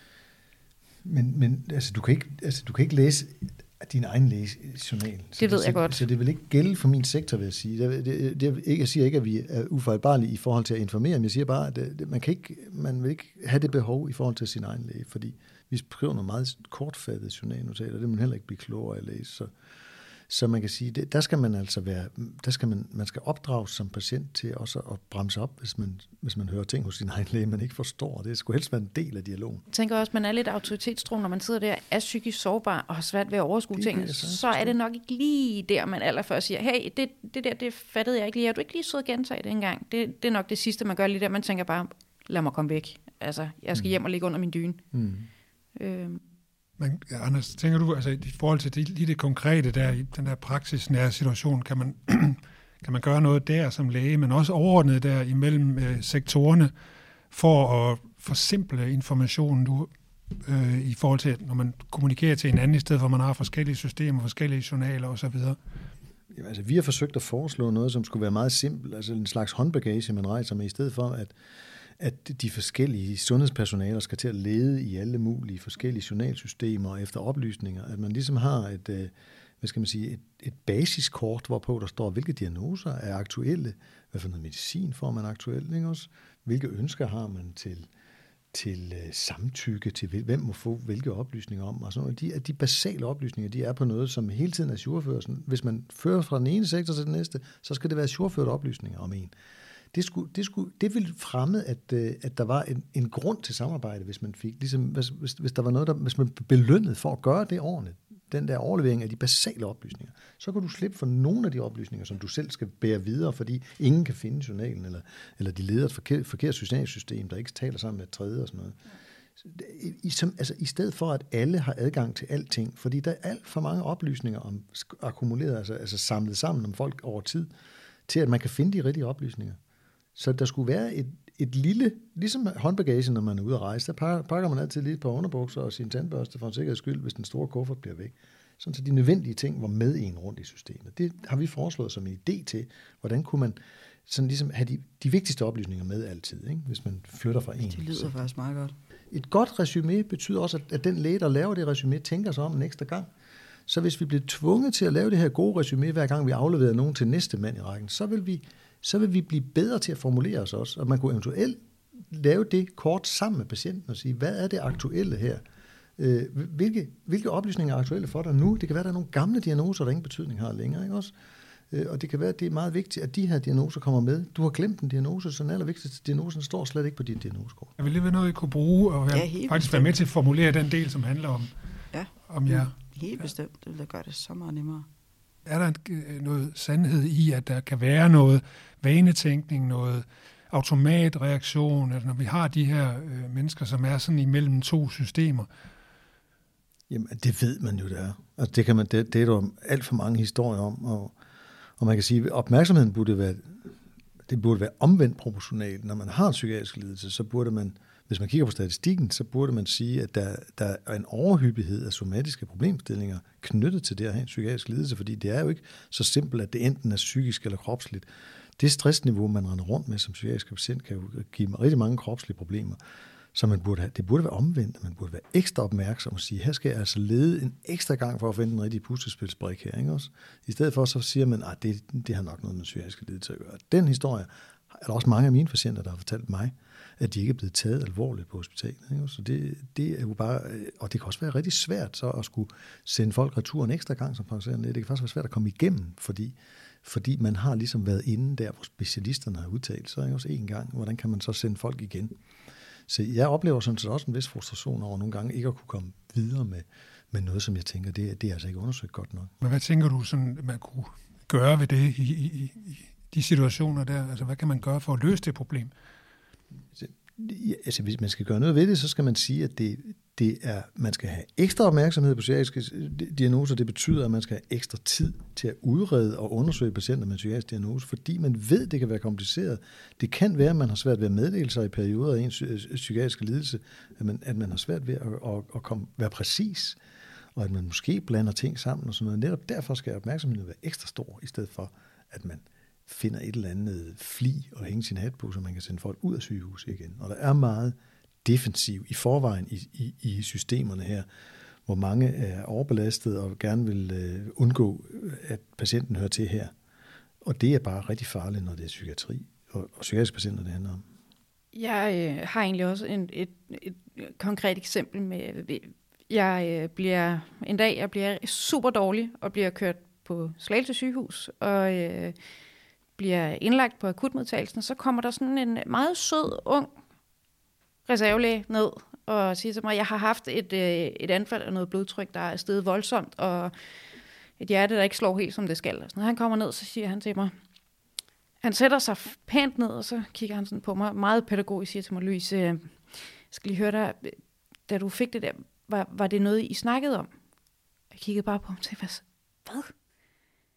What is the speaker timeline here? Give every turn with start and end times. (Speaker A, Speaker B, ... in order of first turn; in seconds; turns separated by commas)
Speaker A: 1.0-19.5, Speaker B: 5.4-6.0, Speaker A: 20.3-29.6, Speaker B: 29.7-44.8, Speaker A: 33.7-34.8, Speaker A: 44.9-45.3, Speaker B: 45.7-46.2, Speaker C: 46.8-56.7, Speaker C: 57.3-65.6, Speaker A: 66.3-71.3, Speaker A: 72.0-87.9, Speaker A: 88.5-99.3, Speaker A: 99.9-118.8, Speaker A: 119.4-127.5, Speaker A: 128.1-129.6, Speaker A: 130.2-148.2, Speaker D: 147.6-148.7, Speaker A: 149.1-153.1, Speaker A: 153.7-165.4, Speaker A: 166.0-171.1, Speaker A: 171.7-177.7, Speaker C: 177.8-181.5, Speaker D: 179.1-179.9, Speaker D: 181.9-184.9, Speaker C: 182.3-182.8, Speaker C: 185.4-195.5, Speaker A: 196.9-201.1, Speaker A: 201.8-203.7, Speaker A: 204.3-218.1, Speaker A: 218.6-222.8, Speaker A: 223.3-252.1, Speaker A: 252.9-259.3, Speaker C: 259.4-265.7, Speaker A: 266.7-286.8, Speaker A: 287.3-301.1, Speaker A: 301.7-306.5, Speaker A: 307.2-310.8, Speaker B: 311.5-322.1, Speaker B: 323.0-326.7, Speaker B: 327.9-333.5, Speaker B: 334.4-337.3, Speaker B: 338.4-344.2, Speaker B: 344.7-347.1, Speaker B: 347.9-349.7